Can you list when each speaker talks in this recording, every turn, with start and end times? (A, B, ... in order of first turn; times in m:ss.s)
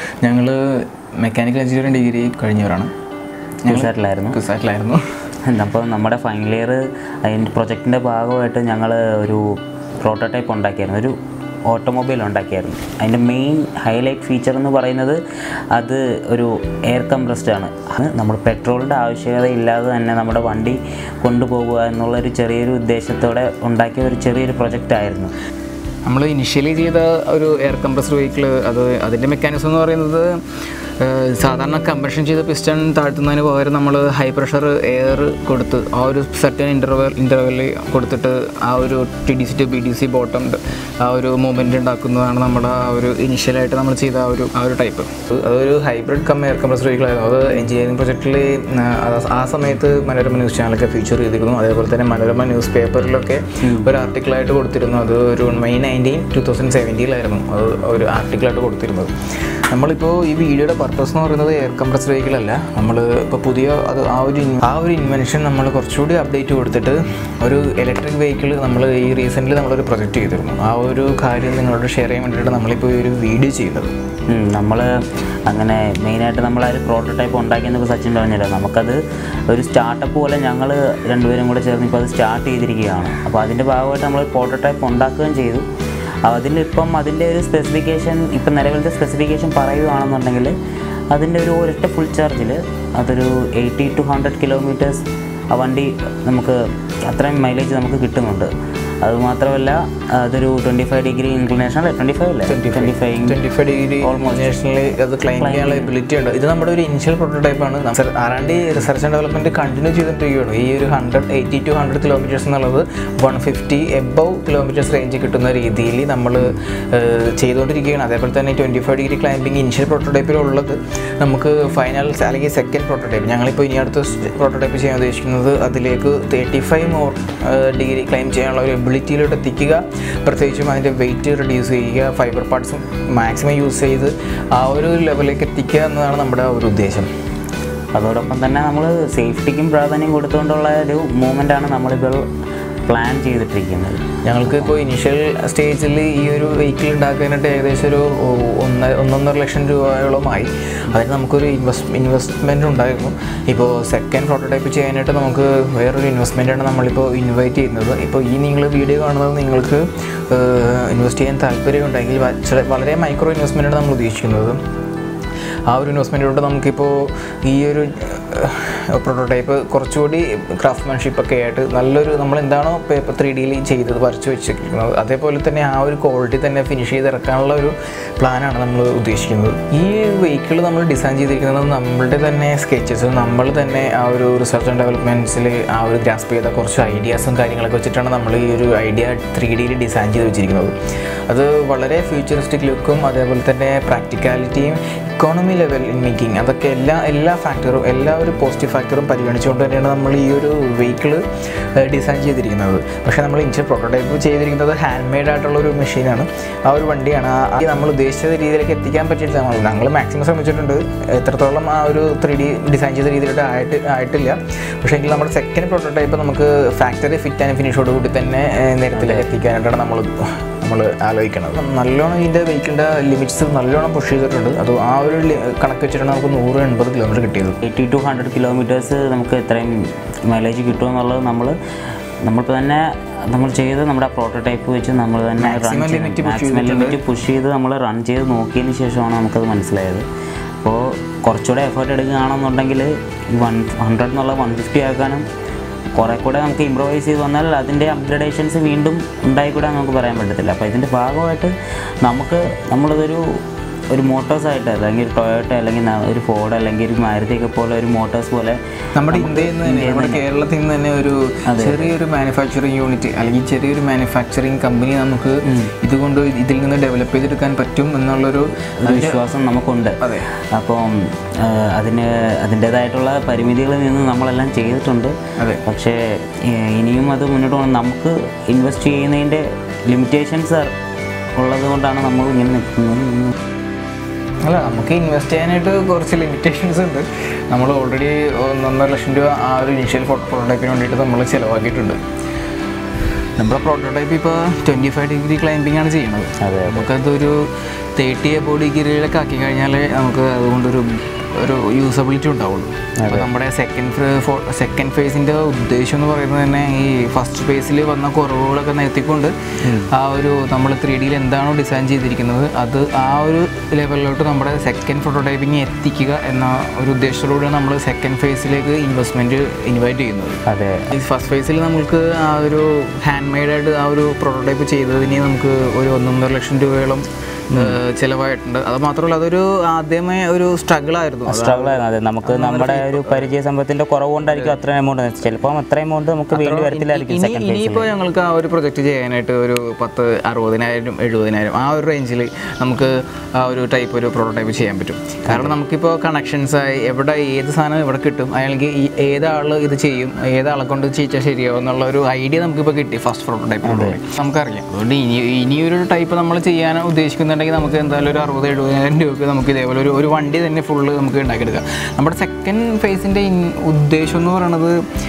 0:00.2-0:02.9 A
0:03.6-0:05.0 A
0:03.7-0:04.4 B
0:05.5-0:09.4 B
0:10.0-0:11.1 B
0:11.7-0:15.2 B
0:15.8-0:25.3 B
0:26.1-0:30.4 A
0:31.0-0:59.1 A
0:53.6-0:53.9 B
0:59.7-1:13.9 A
1:14.3-1:14.9 B
1:15.5-1:19.0 B
1:19.5-1:25.6 B
1:26.3-1:30.5 B
1:31.1-1:43.4 B
1:42.5-2:17.1 A
1:44.0-1:44.6 B
1:45.4-1:45.9 B
2:18.0-2:22.2 B
2:22.9-2:24.8 B
2:24.2-2:44.6 A
2:45.7-3:10.7 A
3:11.3-3:21.2 A
3:21.8-3:47.6 A
3:39.0-3:39.3 B
3:47.6-3:49.8 B
3:50.3-3:51.5 B
3:52.2-4:00.0 B
3:55.4-3:57.0 A
4:00.6-4:05.2 B
4:06.0-4:11.5 B
4:12.0-4:13.2 B
4:13.9-4:18.6 B
4:19.0-4:29.2 A
4:19.1-4:20.2 B
4:21.5-4:21.9 B
4:25.4-4:25.7 B
4:28.8-4:30.0 B
4:30.0-4:30.3 A
4:30.5-4:35.1 B
4:35.7-4:40.7 B
4:41.4-4:43.3 B
4:44.4-4:52.0 A
4:53.4-4:57.5 A
4:56.4-4:56.9 B
4:58.0-5:20.4 A
5:03.0-5:03.3 B
5:09.6-5:09.9 B
5:20.5-5:20.9 B
5:20.9-5:33.3 A
5:31.3-5:37.9 B
5:34.2-5:34.6 A
5:36.3-6:04.8 A
5:45.3-5:45.6 B
5:53.6-5:54.0 B